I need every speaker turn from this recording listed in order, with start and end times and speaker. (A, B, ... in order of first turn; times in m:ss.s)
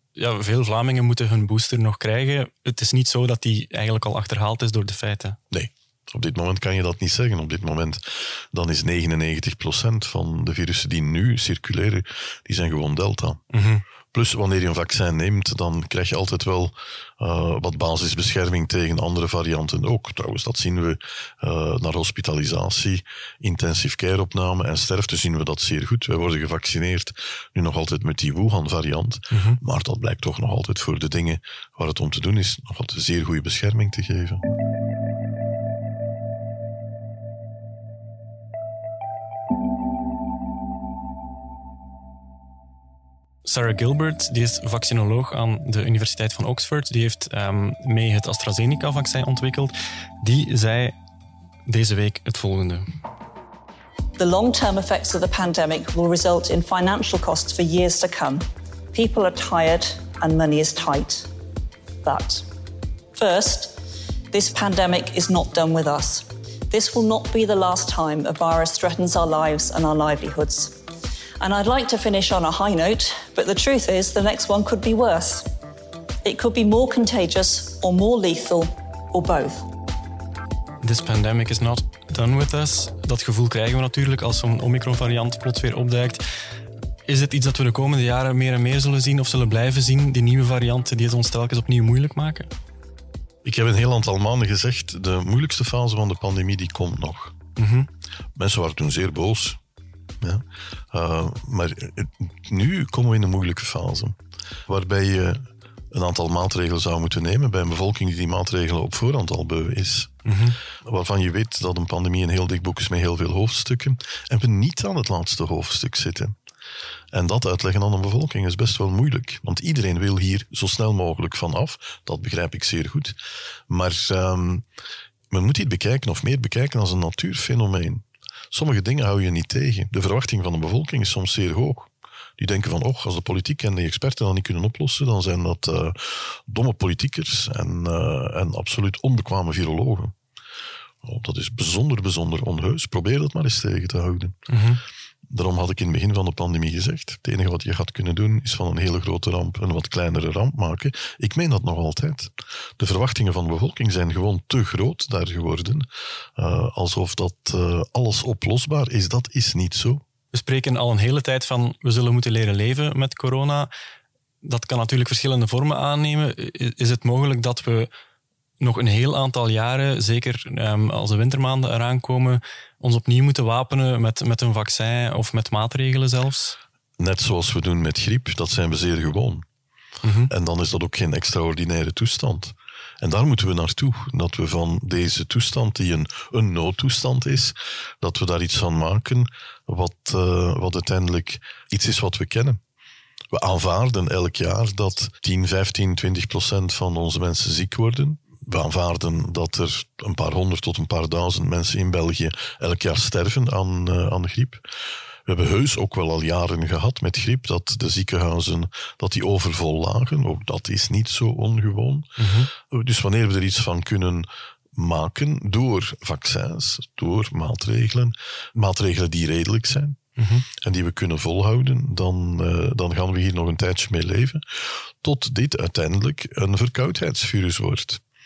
0:00.2-0:05.4 A
0:05.5-0:13.4 B
0:13.5-0:13.8 A
0:14.1-0:34.4 B
0:29.3-0:29.6 A
0:43.4-0:50.9 A
0:51.6-0:52.8 A
0:54.2-1:01.3 C
1:02.0-1:02.5 C
1:03.1-1:03.8 C
1:04.3-1:10.8 C
1:11.4-1:15.5 C
1:16.2-1:19.7 C
1:20.8-1:26.2 A
1:27.0-1:32.5 A
1:33.4-1:37.3 B
1:37.6-1:37.9 A
1:38.4-1:39.6 B
1:40.2-1:50.2 B
1:50.2-1:50.6 A
1:50.8-1:56.4 B
1:57.1-2:03.2 B
2:03.7-2:04.6 B
2:05.3-2:20.1 B
2:21.0-2:24.5 B
2:24.5-2:24.8 A
2:25.3-2:40.0 B
2:40.3-2:43.7 A
2:44.4-2:47.9 A
2:48.6-2:56.6 A
2:57.0-2:59.4 B
3:00.0-3:00.3 A
3:00.3-3:12.6 B
3:13.3-3:24.7 B
3:25.2-3:40.0 B
3:32.2-3:32.5 A
3:40.2-3:40.4 A
3:40.5-3:48.0 B